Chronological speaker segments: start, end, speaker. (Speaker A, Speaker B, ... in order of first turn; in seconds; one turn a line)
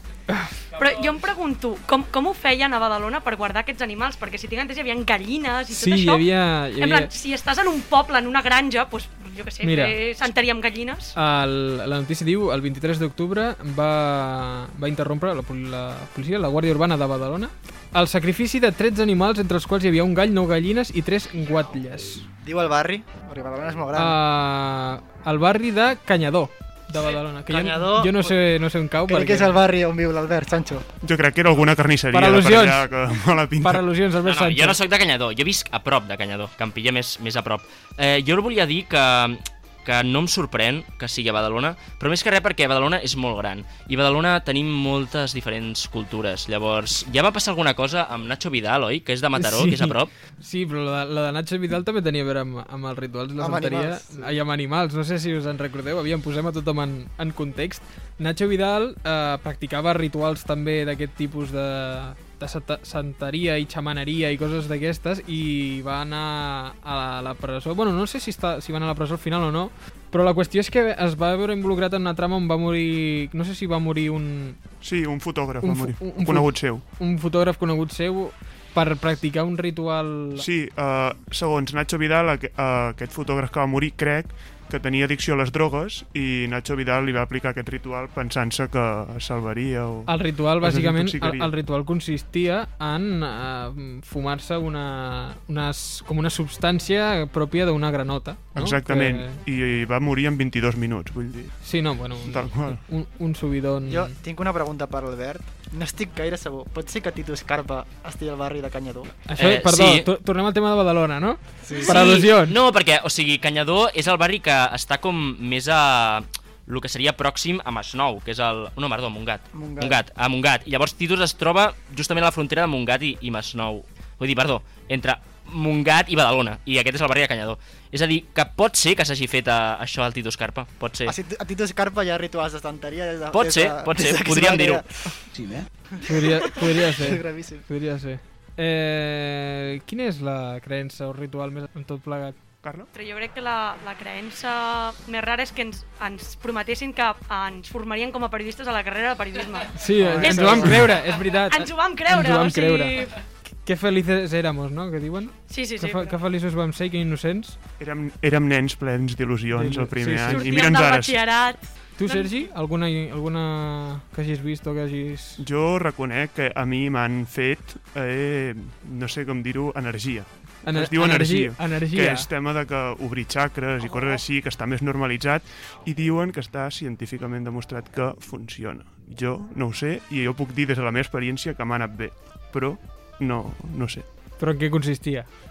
Speaker A: 0.8-6.3
Speaker B: 5.7-7.1
Speaker A: 6.8-11.1
Speaker B: 9.6-10.0
Speaker B: 11.2-22.3
Speaker C: 22.4-24.2
Speaker B: 23.9-29.6
Speaker C: 27.5-28.4
Speaker C: 29.1-30.9
Speaker D: 31.0-33.8
Speaker B: 32.1-32.9
Speaker B: 33.6-34.8
Speaker E: 34.2-50.1
Speaker B: 49.4-74.6
Speaker C: 53.4-54.4
Speaker D: 74.8-76.8
Speaker B: 75.6-80.5
Speaker D: 80.4-91.5
Speaker B: 90.1-99.4
Speaker D: 98.5-101.6
Speaker B: 101.6-104.2
Speaker D: 102.3-102.8
Speaker C: 103.9-109.1
Speaker B: 109.3-112.6
Speaker E: 109.4-110.1
Speaker C: 111.6-112.0
Speaker E: 111.9-131.2
Speaker C: 119.5-120.0
Speaker C: 131.0-135.1
Speaker E: 133.3-134.8
Speaker C: 136.0-137.7
Speaker B: 136.0-142.4
Speaker D: 142.6-142.9
Speaker A: 142.9-153.2
Speaker B: 149.7-153.0
Speaker C: 150.0-150.8
Speaker D: 150.4-150.8
Speaker B: 153.6-157.6
Speaker A: 155.5-156.2
Speaker D: 157.8-161.2
Speaker B: 159.5-160.5
Speaker A: 160.3-162.5
Speaker B: 162.0-165.4
Speaker D: 165.4-184.1
Speaker B: 170.6-172.3
Speaker B: 184.4-185.3